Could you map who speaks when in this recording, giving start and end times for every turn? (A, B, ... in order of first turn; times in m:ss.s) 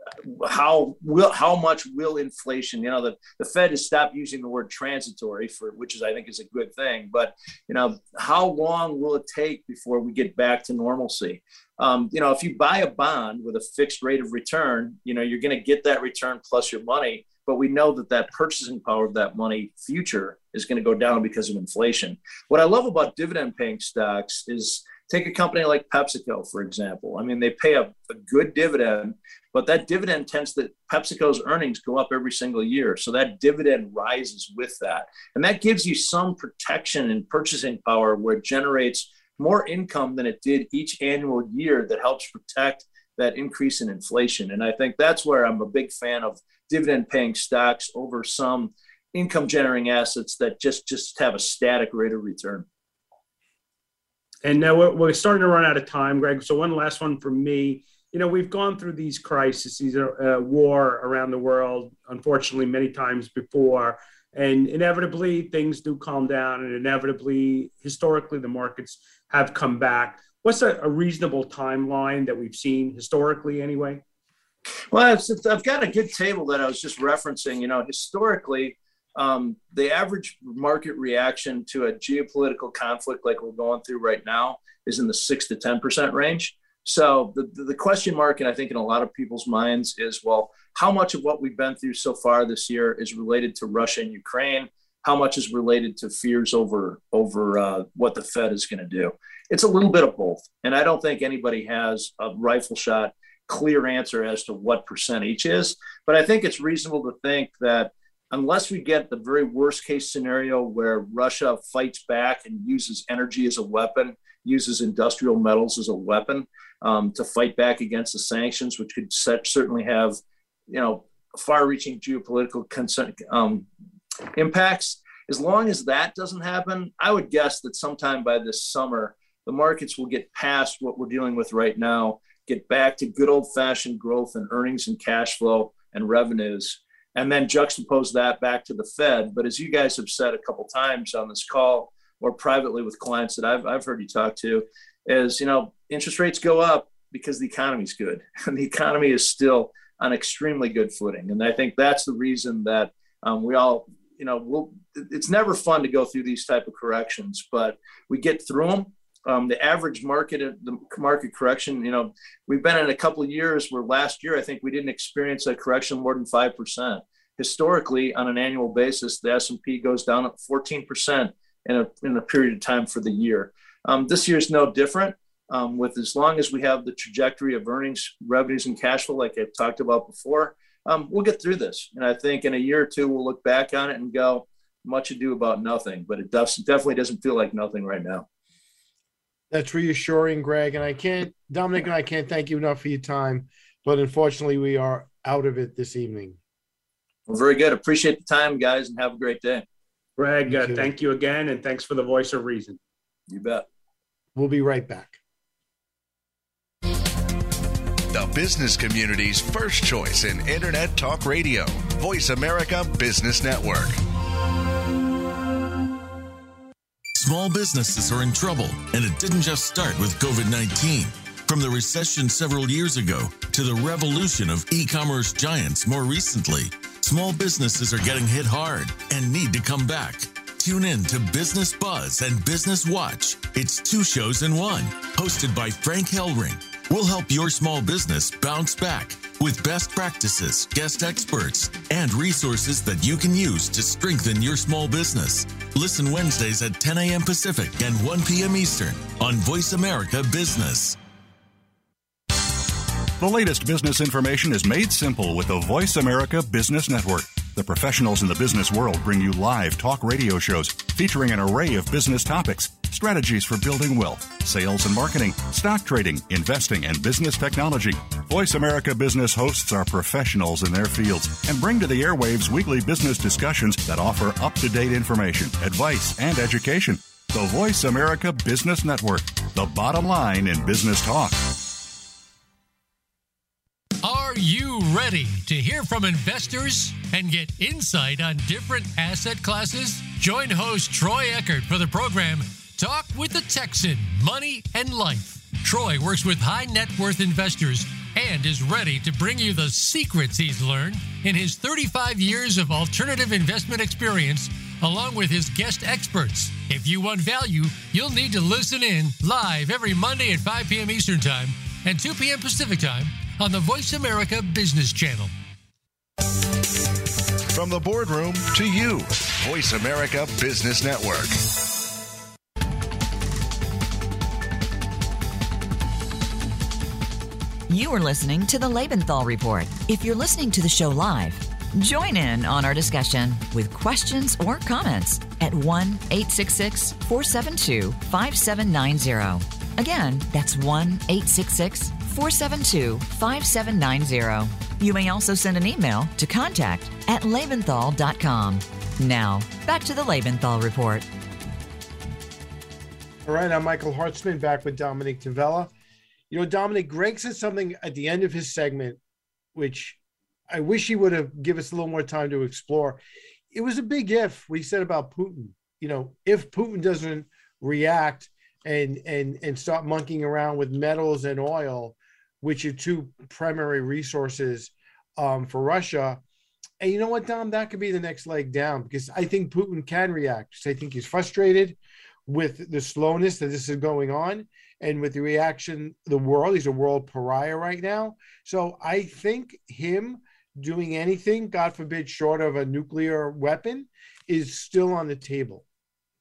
0:00.2-0:52.6 A
0:54.4-1:14.0 B
1:14.9-2:00.2 A
2:00.7-2:03.6 A
2:04.3-3:08.2 A
3:09.5-3:16.4 C
3:17.3-3:19.6 A
3:20.2-3:22.8 B
3:20.5-3:20.9 C
3:23.3-3:23.6 A
3:24.3-3:25.2 C
3:28.1-3:34.0 D
3:37.2-4:11.0 E
4:13.2-4:41.4 F
4:44.0-5:15.3 G
5:17.5-5:21.4 D
5:27.7-5:51.1 H
5:53.2-5:55.7 C
5:56.3-5:59.0 C
5:59.5-6:00.0 C
6:00.5-6:03.0 C
6:03.5-6:16.2 C
6:16.8-6:35.6 C